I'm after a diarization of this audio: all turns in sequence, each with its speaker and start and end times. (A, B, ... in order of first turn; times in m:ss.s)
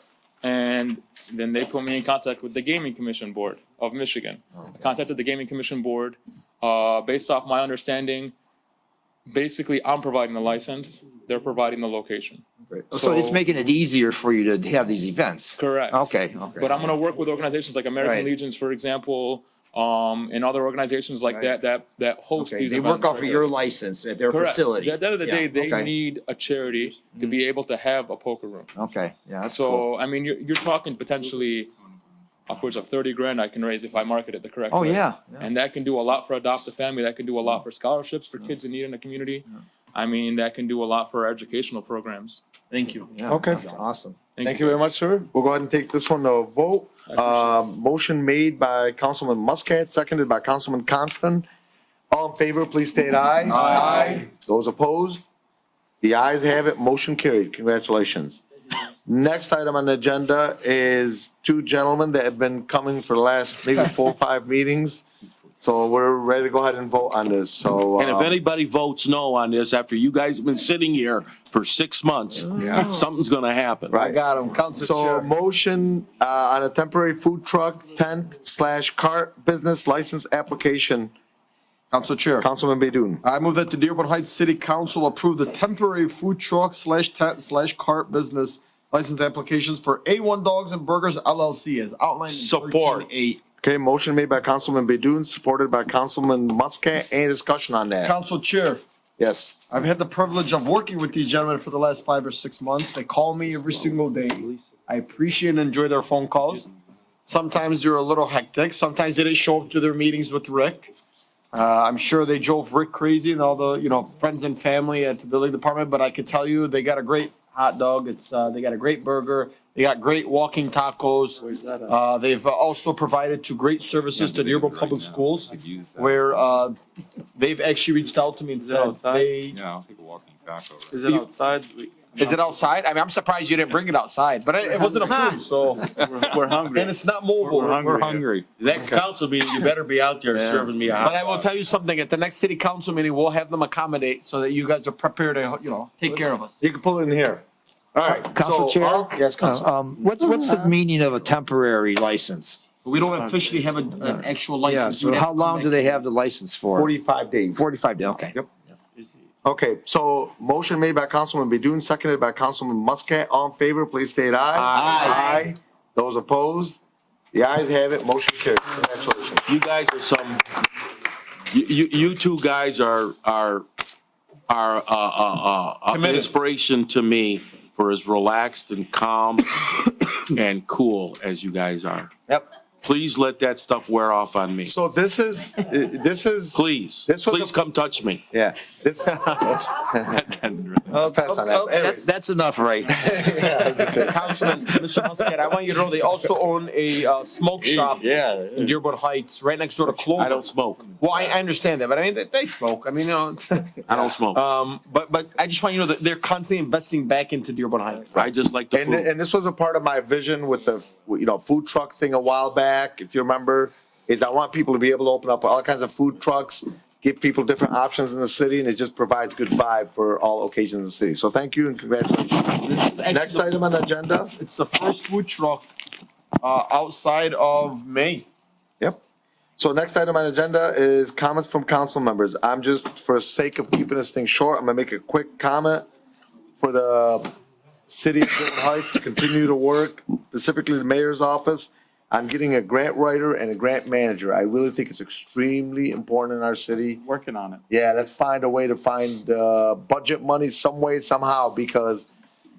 0:00.4-0:08.3 A
0:09.3-0:13.4 A
0:12.7-0:16.9 B
0:15.6-0:16.0 A
0:16.6-0:23.6 A
0:18.0-0:18.3 B
0:21.3-0:21.5 B
0:22.4-0:25.9 B
0:24.3-0:28.7 A
0:28.8-0:29.8 B
0:29.5-0:31.7 A
0:32.5-0:42.4 A
0:34.7-0:35.4 B
0:42.7-0:43.1 C
0:43.1-0:44.2 B
0:43.3-0:43.6 D
0:44.4-0:44.8 A
0:44.4-0:51.4 D
0:47.1-0:47.6 A
0:52.1-0:55.2 D
0:53.5-0:54.2 A
0:56.0-0:58.4 D
0:59.0-1:05.0 D
1:05.6-1:08.4 D
1:08.0-1:14.1 E
1:13.9-1:14.2 D
1:14.0-1:15.3 C
1:14.7-1:21.1 D
1:21.9-1:22.5 C
1:22.4-1:23.2 D
1:23.2-1:33.4 C
1:32.3-1:33.1 E
1:33.6-1:38.1 D
1:38.0-1:38.8 C
1:39.2-1:39.6 D
1:39.7-1:46.7 C
1:47.2-1:50.9 C
1:51.5-2:06.8 C
2:01.4-2:01.9 F
2:04.1-2:06.5 G
2:07.3-2:09.6 C
2:08.6-2:09.4 F
2:09.4-2:11.0 G
2:10.9-2:12.5 F
2:12.2-2:15.8 C
2:15.9-2:16.2 G
2:15.9-2:17.0 F
2:16.4-2:18.2 C
2:17.4-2:18.5 G
2:17.6-2:18.2 F
2:18.6-2:21.5 E
2:21.0-2:26.5 C
2:26.6-2:27.4 D
2:27.9-2:29.7 D
2:28.2-2:32.6 B
2:32.8-2:35.7 C
2:34.0-2:36.9 B
2:36.7-2:37.6 D
2:37.5-2:38.4 B
2:39.4-2:46.8 D
2:44.5-2:45.4 C
2:47.3-2:49.4 D
2:49.4-2:50.4 E
2:51.5-2:53.7 E
2:54.5-2:59.6 E
2:55.9-2:56.3 C
3:00.3-3:02.1 E
3:02.8-3:04.7 E
3:04.6-3:07.6 D
3:06.5-3:08.2 E
3:08.3-3:10.2 D
3:10.4-3:11.0 E
3:10.9-3:12.1 D
3:11.0-3:12.8 B
3:12.8-3:14.8 D
3:13.6-3:20.4 C
3:17.7-3:18.7 G
3:20.1-3:21.0 E
3:21.0-3:28.3 C
3:23.9-3:24.4 E
3:28.1-3:29.1 E
3:28.7-3:44.3 D
3:42.6-3:43.5 C
3:44.3-3:45.7 C
3:46.4-3:48.2 C
3:49.6-3:55.9 D
3:56.6-3:57.3 D
3:57.9-4:07.0 D
4:07.0-4:07.6 F
4:07.7-4:12.1 D